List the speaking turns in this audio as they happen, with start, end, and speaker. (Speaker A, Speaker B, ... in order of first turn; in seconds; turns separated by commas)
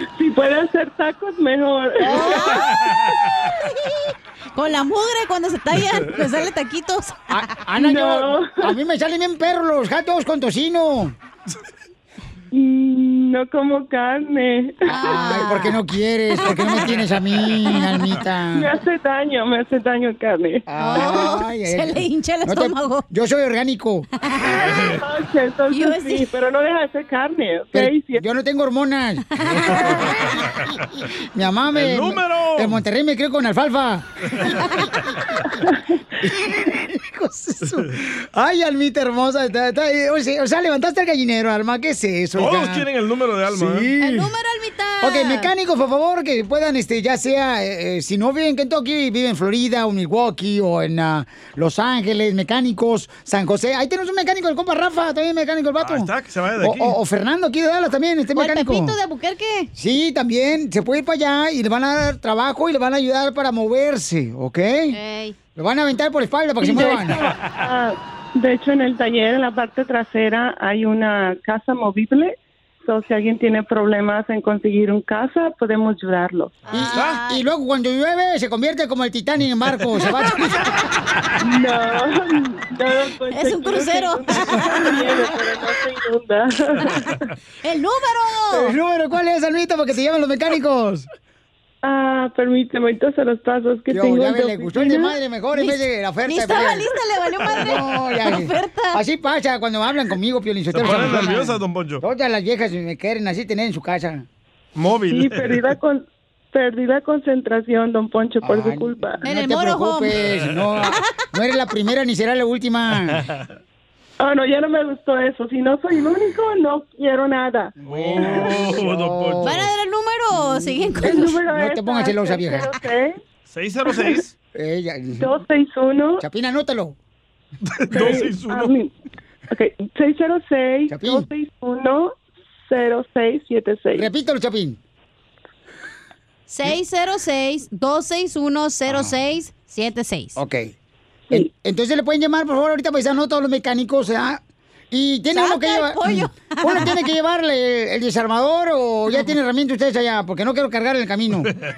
Speaker A: 0.2-2.5, Speaker B: 2.0-2.6, Speaker C: 2.1-2.7, Speaker D: 2.7-3.1, Speaker C: 4.5-7.2, Speaker B: 7.3-11.2, Speaker A: 7.8-8.7, Speaker A: 12.5-15.0, Speaker C: 14.9-15.8, Speaker B: 14.9-18.7, Speaker C: 16.4-16.9, Speaker C: 17.7-18.0, Speaker A: 18.5-20.6, Speaker B: 20.7-24.1, Speaker C: 20.8-23.1, Speaker C: 24.2-24.6, Speaker D: 24.5-25.0, Speaker A: 24.6-28.2, Speaker C: 25.7-26.2, Speaker B: 27.7-30.4, Speaker C: 29.4-30.1, Speaker B: 31.3-34.1, Speaker D: 31.7-32.8, Speaker B: 36.2-42.9, Speaker D: 42.4-43.9, Speaker B: 43.5-44.3, Speaker C: 44.0-45.5, Speaker B: 45.0-59.0, Speaker D: 55.8-57.0, Speaker C: 58.4-59.7, Speaker B: 59.8-65.0, Speaker C: 64.9-65.4, Speaker B: 65.6-67.2, Speaker A: 66.6-76.6, Speaker C: 76.7-77.4, Speaker B: 76.7-80.7, Speaker D: 76.8-77.2, Speaker A: 81.4-87.3, Speaker C: 83.3-84.9, Speaker C: 87.6-88.8, Speaker B: 88.5-91.1, Speaker A: 91.8-95.2, Speaker B: 93.9-96.9, Speaker C: 95.5-99.0, Speaker B: 97.5-104.3, Speaker D: 100.7-102.0, Speaker D: 104.8-105.7, Speaker A: 105.1-109.2, Speaker B: 108.4-113.2, Speaker C: 109.2-110.2, Speaker D: 113.1-113.5, Speaker A: 114.2-118.5, Speaker B: 117.8-119.7, Speaker D: 117.8-119.6, Speaker C: 119.4-121.4, Speaker A: 121.0-123.2, Speaker B: 121.1-122.7, Speaker D: 123.5-124.3, Speaker A: 123.9-124.2, Speaker B: 124.5-125.3, Speaker A: 125.2-126.2, Speaker B: 126.2-127.0, Speaker D: 127.7-128.7, Speaker A: 127.9-128.9, Speaker A: 129.5-134.1, Speaker B: 130.9-131.3, Speaker B: 133.9-134.8, Speaker C: 136.5-140.4, Speaker B: 138.9-139.1, Speaker B: 140.4-140.7, Speaker B: 141.3-151.5, Speaker C: 145.3-147.1